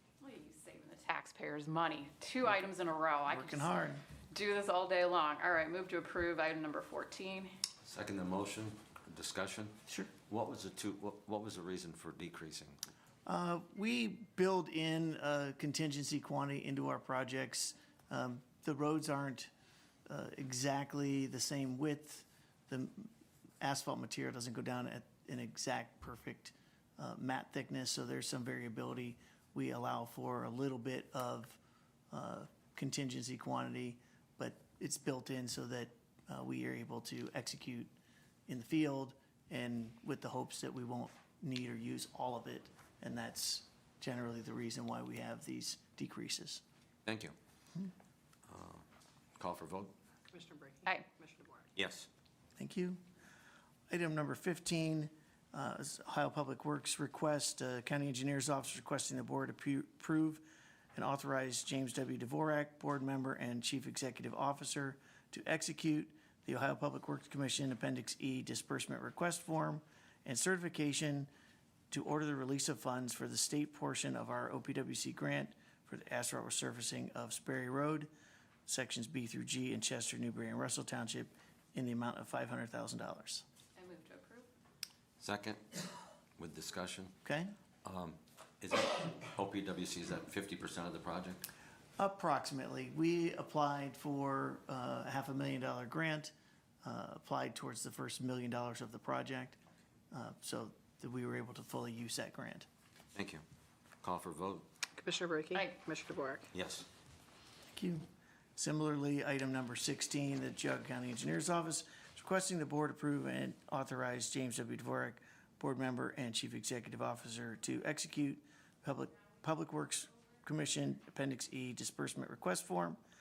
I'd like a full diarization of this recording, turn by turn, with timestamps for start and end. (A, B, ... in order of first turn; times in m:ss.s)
0:00.2-0:03.6 A
0:03.3-0:04.0 B
0:04.3-0:07.5 A
0:07.8-0:12.8 C
0:13.2-0:19.5 B
0:20.1-0:23.1 B
0:23.6-0:31.6 B
0:32.1-0:37.9 B
0:38.5-0:46.6 B
0:47.0-0:47.3 C
0:48.5-0:48.8 C
0:49.4-0:49.9 C
0:50.3-0:51.7 D
0:51.8-0:52.1 C
0:52.6-0:53.0 B
0:53.9-1:11.3 B
1:11.9-1:18.1 B
1:18.7-1:23.4 B
1:23.8-1:24.5 A
1:25.2-1:25.8 C
1:26.4-1:27.1 C
1:27.2-1:27.5 B
1:27.8-1:31.4 C
1:32.0-1:39.6 B
1:40.1-1:42.7 B
1:43.1-1:43.4 C
1:44.0-1:44.7 C
1:45.0-1:46.5 D
1:46.5-1:46.8 C
1:47.7-1:48.0 B
1:48.6-2:03.0 B